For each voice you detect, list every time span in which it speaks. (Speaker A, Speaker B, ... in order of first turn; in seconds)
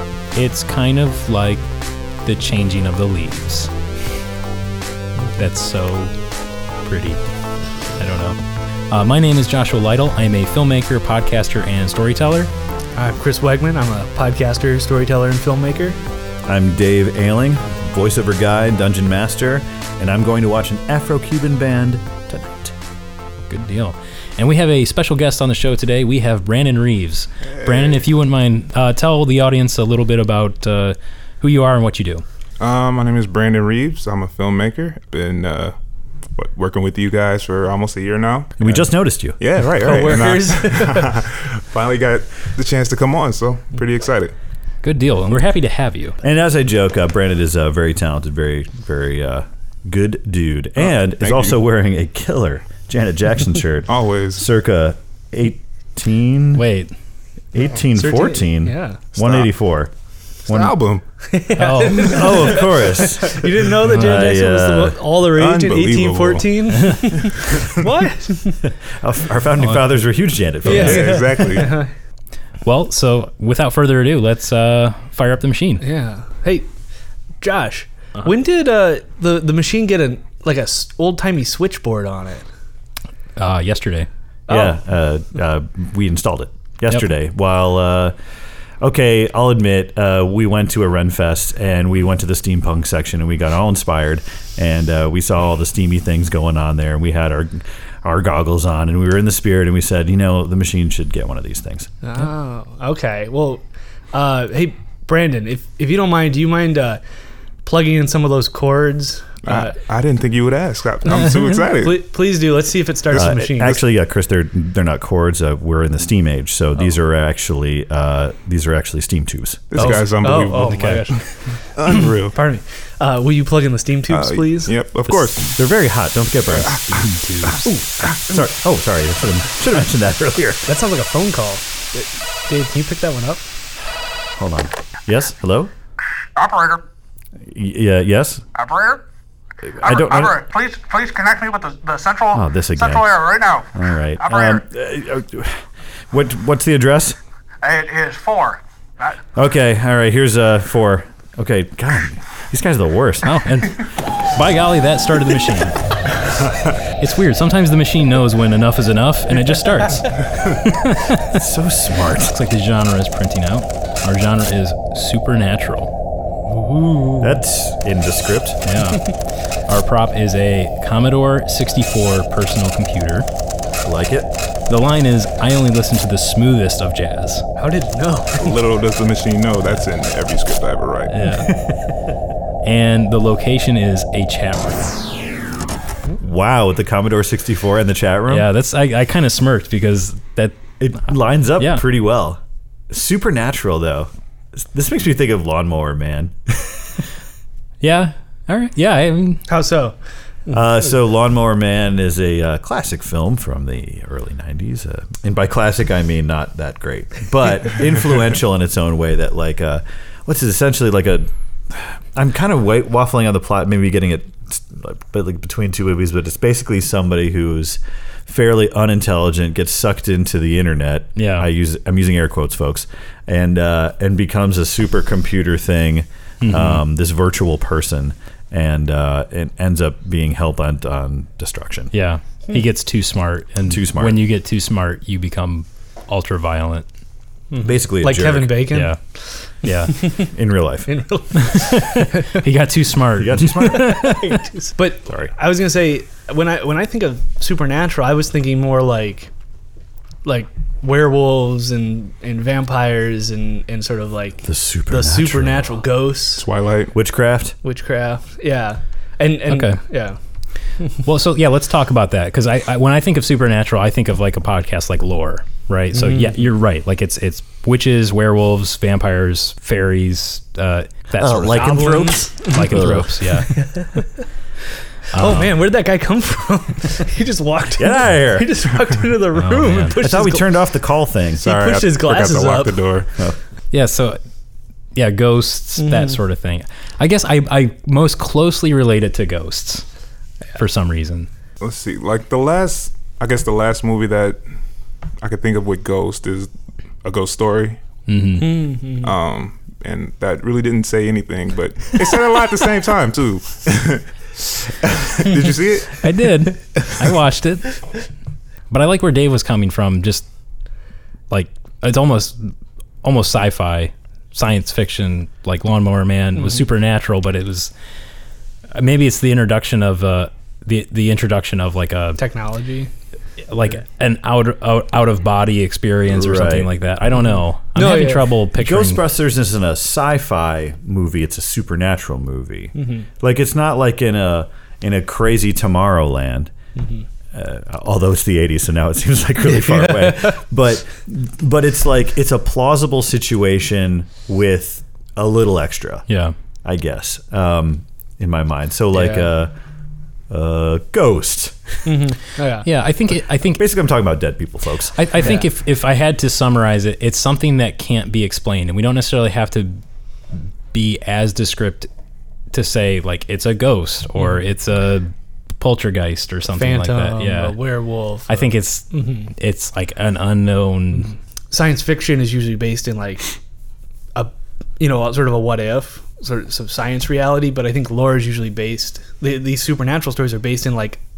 Speaker A: 0.3-1.6, 2.2-3.7, 5.3-6.1, 6.8-7.2, 8.0-8.4, 8.9-12.5, 23.5-32.2, 44.8-46.2, 56.5-56.9, 61.5-62.4, 72.6-75.8, 83.4-84.1, 119.8-121.0, 127.0-127.6, 153.2-155.8, 157.0-161.4, 162.2-165.9, 168.7-169.1, 169.7-173.2, 174.7-177.4, 181.1-181.5, 182.6-185.1, 188.3-190.6, 191.6-191.8, 197.8-199.4, 221.2-221.5, 226.4-226.8, 231.9-236.8, 238.7-239.0, 239.6-240.0, 241.3-244.4, 259.5-259.8, 261.0-273.5, 275.1-275.5, 279.4-279.9, 283.7-284.2, 284.9-289.9, 290.5-291.3, 298.1-298.6, 306.0-307.8, 308.7-310.2, 311.3-312.5, 313.0-317.7, 318.7-322.2, 323.5-329.0, 346.1-346.3, 352.6-353.6, 354.9-359.8, 360.7-361.9, 362.5-367.6, 368.3-371.1
Speaker B: 12.9-16.0, 39.8-41.1, 57.9-59.0, 61.3-68.6, 70.6-71.9, 75.8-76.7, 77.4-82.5, 84.5-84.8, 102.0-107.0, 107.6-109.8, 111.7-113.8, 119.8-121.3, 122.0-124.7, 130.7-133.4, 140.4-142.2, 147.6-148.5, 166.5-167.3, 177.6-178.5, 199.5-200.0, 237.5-238.9, 239.9-240.3, 240.9-242.3, 243.5-249.3, 250.2-256.4, 257.6-260.2, 265.9-266.4, 271.5-274.2, 275.1-280.6, 281.4-282.8, 285.8-286.2, 298.4-299.1, 322.2-322.9, 327.7-328.3, 332.8-333.1, 336.8-337.0, 339.5-340.4, 348.9-349.3, 351.8-352.7, 366.6-369.3, 371.5-373.3, 374.1-381.0
Speaker C: 16.4-22.7, 38.6-39.4, 46.2-56.6, 57.5-59.9, 60.5-60.7, 62.0-65.0, 68.9-71.2, 84.5-88.1, 88.8-101.9, 113.1-119.9, 125.4-130.7, 134.3-135.7, 137.4-138.4, 139.6-140.4, 142.3-147.2, 149.3-153.4, 161.3-162.4, 167.2-168.6, 173.8-174.3, 181.5-181.7, 186.2-188.4, 190.8-197.0, 200.5-231.9, 233.7-234.2, 237.6-238.8, 240.3-240.9, 243.2-244.0, 254.4-255.7, 256.9-257.6, 271.2-273.2, 277.8-278.5, 279.9-281.4, 326.1-326.7, 328.6-336.5, 337.3-346.0, 346.6-349.5, 350.3-351.8, 353.5-355.0
Speaker D: 27.5-28.0, 32.6-35.7, 36.3-38.8, 39.4-44.3, 51.1-51.6, 53.9-54.4, 59.1-59.5, 60.5-61.0, 65.3-67.8, 70.6-71.8, 109.4-112.0, 119.7-122.3, 124.1-125.5, 126.5-126.9, 178.4-181.2, 256.3-256.9, 281.4-283.1, 291.6-294.4, 295.2-296.5, 297.0-297.8, 299.0-306.1
Speaker E: 136.4-136.8, 138.6-138.9, 140.5-142.3, 147.7-148.6